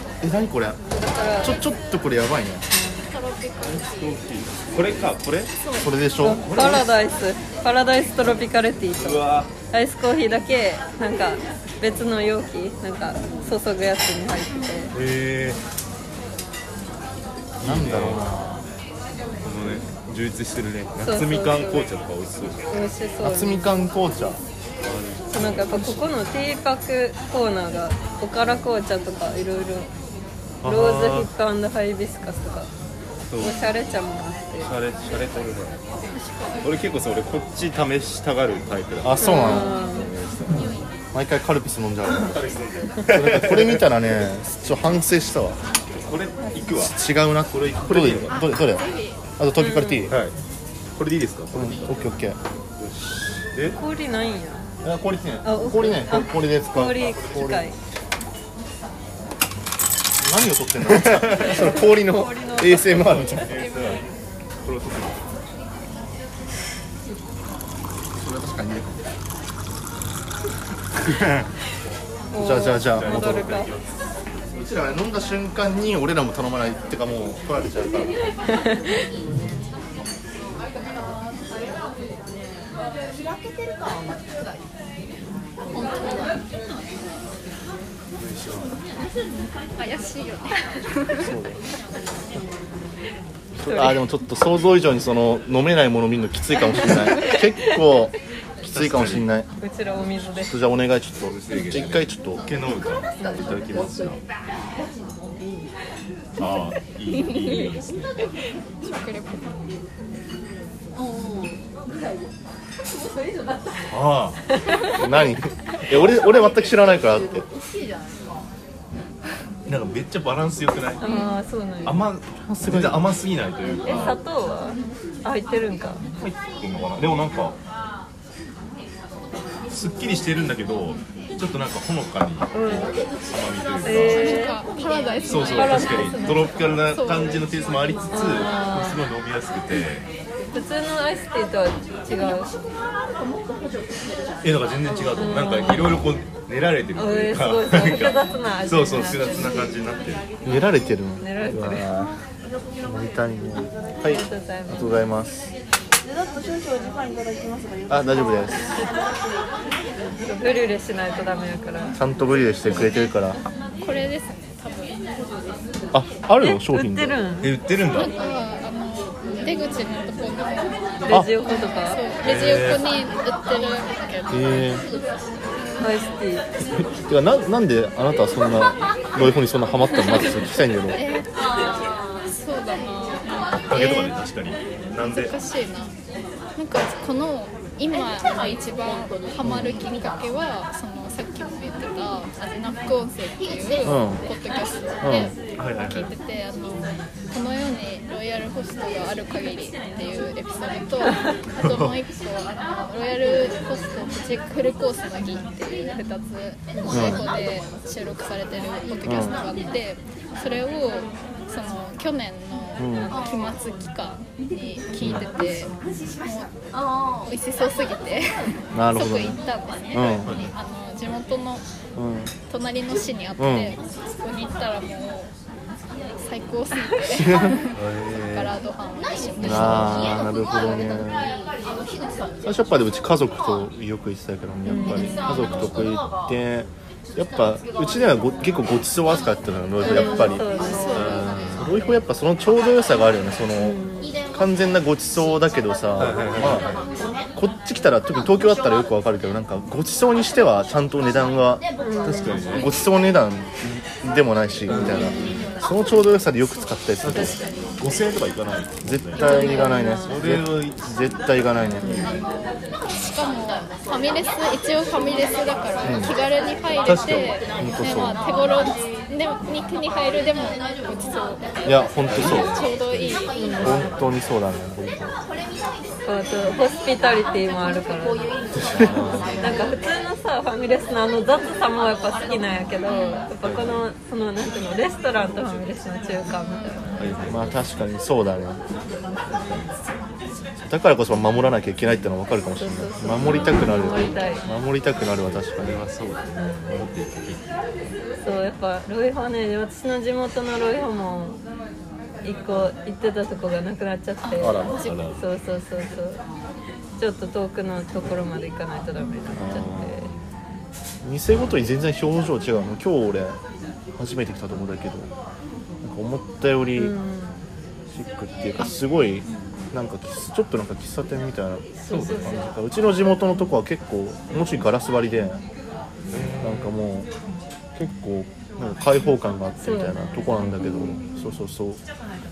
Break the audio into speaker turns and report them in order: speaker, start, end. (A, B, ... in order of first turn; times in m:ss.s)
0:00.2-0:00.8 A
0:01.0-0:01.6 B
0:01.4-0:02.7 A
0:02.7-0:03.1 B
0:03.1-0:04.2 C
0:03.6-0:05.5 D
0:05.8-0:06.8 A
0:06.2-0:14.9 B
0:06.4-0:06.9 D
0:09.0-0:09.5 D
0:14.9-0:15.6 D
0:17.6-0:18.4 D
0:17.6-0:18.6 A
0:19.4-0:22.7 D
0:21.0-0:21.9 B
0:22.7-0:23.7 B
0:23.2-0:24.4 A
0:24.8-0:26.0 D
0:25.3-0:29.9 B
0:30.6-0:31.3 D
0:30.6-0:32.7 B
0:33.3-0:33.6 D
0:33.4-0:34.7 B
0:34.6-0:35.8 D
0:36.1-0:36.6 C
0:36.6-0:40.8 D
0:39.0-0:39.8 A
0:39.2-0:40.1 B
0:41.1-0:42.5 A
0:42.0-0:43.9 D
0:43.1-0:45.6 A
0:45.9-0:47.0 D
0:46.7-0:48.8 A
0:47.5-0:48.5 D
0:48.3-0:49.2 C
0:49.4-0:50.2 A
0:49.6-0:50.1 B
0:50.1-0:50.4 D
0:51.0-0:52.0 D
0:51.5-0:52.4 A
0:52.8-0:53.8 D
0:53.7-0:54.7 B
0:54.8-0:57.6 A
0:55.4-0:57.8 B
0:57.0-0:57.6 D
1:00.2-1:03.6 A
1:00.9-1:01.6 D
1:01.4-1:03.4 B
1:02.9-1:04.0 D
1:04.6-1:05.2 D
1:08.2-1:09.0 A
1:12.3-1:13.7 B
1:12.4-1:13.5 A
1:12.8-1:13.9 D
1:14.5-1:18.2 A
1:18.5-1:18.8 B
1:28.2-1:28.7 D
1:29.8-1:31.3 C
1:31.2-1:31.6 A
1:33.6-1:39.5 A
1:33.7-1:34.0 B
1:38.7-1:39.3 D
1:39.6-1:40.5 B
1:40.2-1:42.4 A
1:41.2-1:44.2 D
1:43.2-1:43.6 B
1:46.4-1:48.2 D
1:48.8-1:49.5 C
1:53.9-1:54.4 D
1:55.0-1:57.5 A
1:59.7-2:01.0 D
2:01.0-2:02.1 B
2:01.8-2:04.2 D
2:02.4-2:03.1 A
2:03.9-2:06.0 B
2:06.2-2:07.6 D
2:09.7-2:14.4 D
2:12.5-2:13.0 B
2:13.8-2:14.6 B
2:13.9-2:16.2 C
2:15.2-2:20.1 D
2:15.5-2:16.5 B
2:16.8-2:17.5 C
2:18.1-2:19.0 B
2:20.5-2:22.5 B
2:24.4-2:30.2 D
2:25.2-2:26.0 B
2:27.0-2:29.7 B
2:30.4-2:32.1 A
2:31.2-2:31.9 B
2:32.7-2:34.0 E
2:32.8-2:35.5 A
2:34.0-2:35.0 B
2:36.0-2:39.5 E
2:37.9-2:38.8 A
2:40.2-2:42.0 B
2:42.0-2:43.4 A
2:43.8-2:45.0 C
2:45.9-2:47.2 A
2:46.4-2:47.5 B
2:47.4-2:48.2 D
2:47.9-2:54.8 C
2:51.1-2:52.0 B
2:52.2-2:52.9 D
2:54.3-2:54.9 A
2:55.6-2:56.0 C
2:55.8-2:56.5 B
2:57.1-3:01.0 A
3:00.9-3:01.3 C
3:02.3-3:04.2 C
3:03.6-3:05.3 D
3:05.0-3:05.9 C
3:06.6-3:35.7 C
3:09.4-3:09.8 A
3:13.8-3:14.2 A
3:15.0-3:15.3 A
3:15.6-3:16.1 D
3:21.6-3:22.0 D
3:26.9-3:27.2 A
3:29.0-3:29.4 A
3:32.8-3:33.2 A
3:35.0-3:35.3 A
3:36.2-3:36.5 C
3:37.2-3:41.6 C
3:38.7-3:39.4 A
3:39.9-3:40.4 A
3:40.2-3:40.5 D
3:42.0-3:42.3 A
3:42.5-3:45.3 C
3:43.4-3:43.8 A
3:46.2-3:51.0 C
3:47.1-3:47.6 A
3:47.7-3:48.6 D
3:49.4-3:49.9 D
3:49.4-3:51.3 A
3:52.4-4:00.5 A
3:54.7-3:55.3 B
3:59.8-4:01.4 B
3:59.9-4:01.9 C
4:00.9-4:01.7 D
4:01.5-4:03.8 A
4:03.6-4:04.2 B
4:04.3-4:06.7 A
4:06.0-4:06.8 D
4:07.4-4:11.6 A
4:11.8-4:12.6 B
4:12.0-4:12.7 D
4:12.5-4:17.4 A
4:14.7-4:15.2 D
4:14.7-4:15.5 B
4:17.0-4:19.2 D
4:18.8-4:22.2 A
4:19.2-4:20.2 B
4:19.2-4:19.8 C
4:20.0-4:20.9 D
4:21.8-4:22.1 B
4:22.0-4:33.6 C
4:25.8-4:26.2 A
4:26.8-4:28.2 A
4:26.9-4:27.3 D
4:31.6-4:32.7 A
4:32.1-4:33.2 D
4:33.3-4:33.9 B
4:33.6-4:35.2 A
4:36.0-4:38.3 B
4:38.6-4:39.4 A
4:38.7-4:39.4 D
4:39.4-4:47.2 B
4:42.9-4:43.3 C
4:43.4-4:43.8 D
4:46.6-4:46.9 C
4:47.0-4:47.6 D
4:47.3-4:48.6 A
4:49.4-4:49.7 D
4:50.7-4:55.8 A
4:52.6-4:54.5 B
4:53.2-4:53.7 D
4:55.2-4:57.4 D
4:56.4-4:56.8 B
4:58.2-5:01.4 B
5:02.2-5:06.2 B
5:04.3-5:05.0 C
5:04.4-5:04.9 A
5:04.7-5:05.2 D
5:07.0-5:10.1 B
5:09.3-5:10.1 A
5:11.0-5:13.4 A
5:14.0-5:15.1 A
5:15.8-5:16.9 A
5:16.8-5:17.4 B
5:17.9-5:25.4 A
5:21.8-5:22.5 B
5:21.9-5:22.4 D
5:26.1-5:26.8 D
5:26.4-5:27.1 A
5:27.8-5:31.8 A
5:29.6-5:30.6 B